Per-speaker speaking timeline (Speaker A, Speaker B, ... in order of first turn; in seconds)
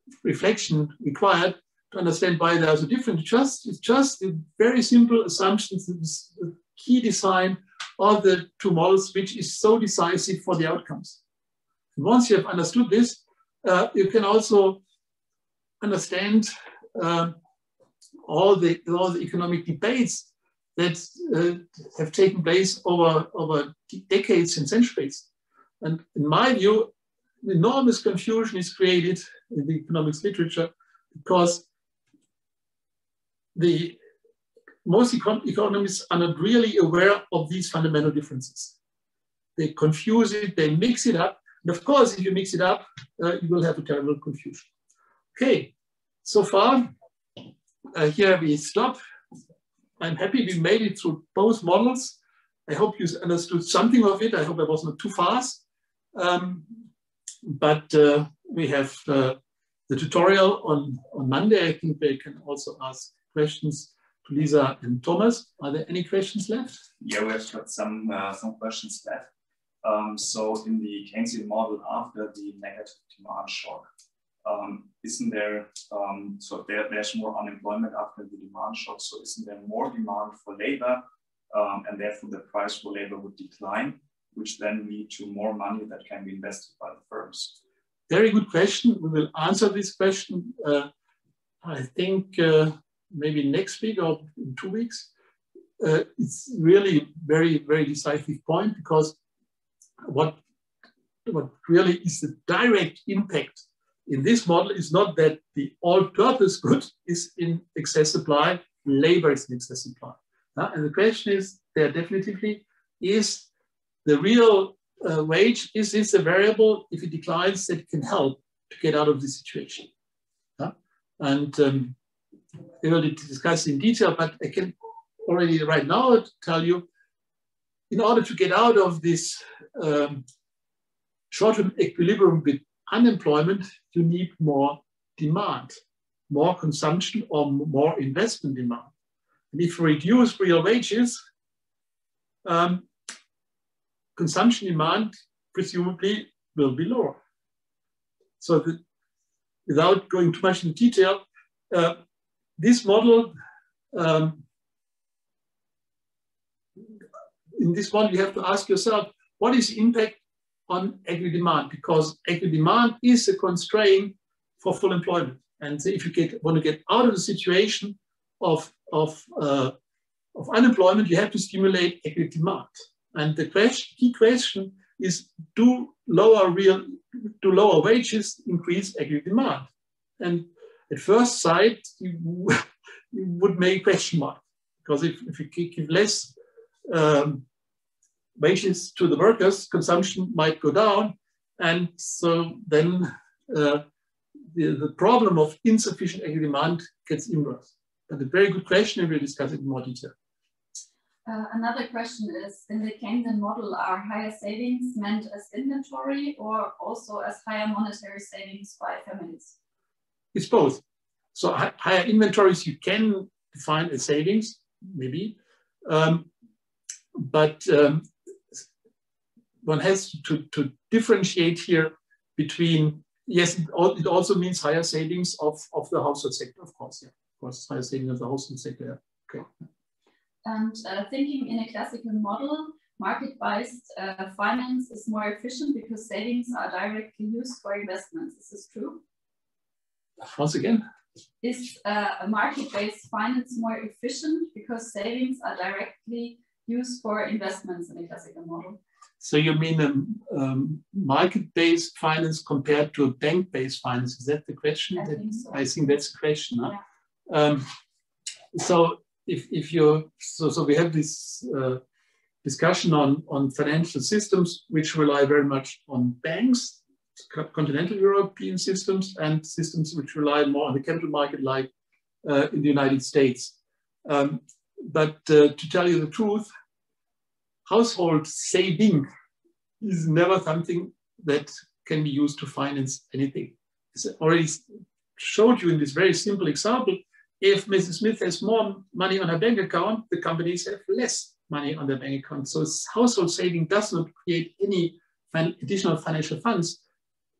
Speaker A: 0.2-11.2, 11.9-14.8, 15.8-17.3, 18.2-25.2, 25.8-26.9, 27.4-31.6, 33.5-34.0, 34.8-38.8, 39.6-44.7, 45.4-45.7, 46.2-46.9, 47.9-49.0, 50.0-55.6, 56.1-56.7, 57.4-59.4, 59.9-66.8, 88.1-90.9, 91.6-95.1, 95.8-99.2, 100.0-100.4, 101.2-113.5, 114.0-119.9, 120.6-122.0, 122.8-126.8, 127.9-130.2, 131.3-135.7, 136.3-138.9, 139.5-141.2, 142.4-142.9, 144.2-147.2, 148.4-148.8, 149.7-151.9, 152.6-153.3, 153.9-154.4, 157.6-160.2, 160.7-169.7, 170.3-179.7, 180.2-186.3, 186.9-187.4, 188.4-193.8, 194.5-200.1, 210.3-210.8, 211.3-216.3, 217.2-218.7, 219.6-229.5, 240.2-240.8, 249.2-256.8, 257.3-257.6, 258.5-261.8, 262.4-266.8, 267.3-271.7, 272.2-276.5, 277.7-279.0, 279.8-284.6, 285.2-296.8
Speaker B: 67.0-69.3, 69.8-73.8, 74.4-87.6
Speaker C: 201.2-209.6, 230.4-239.0, 241.4-248.8, 255.0-255.7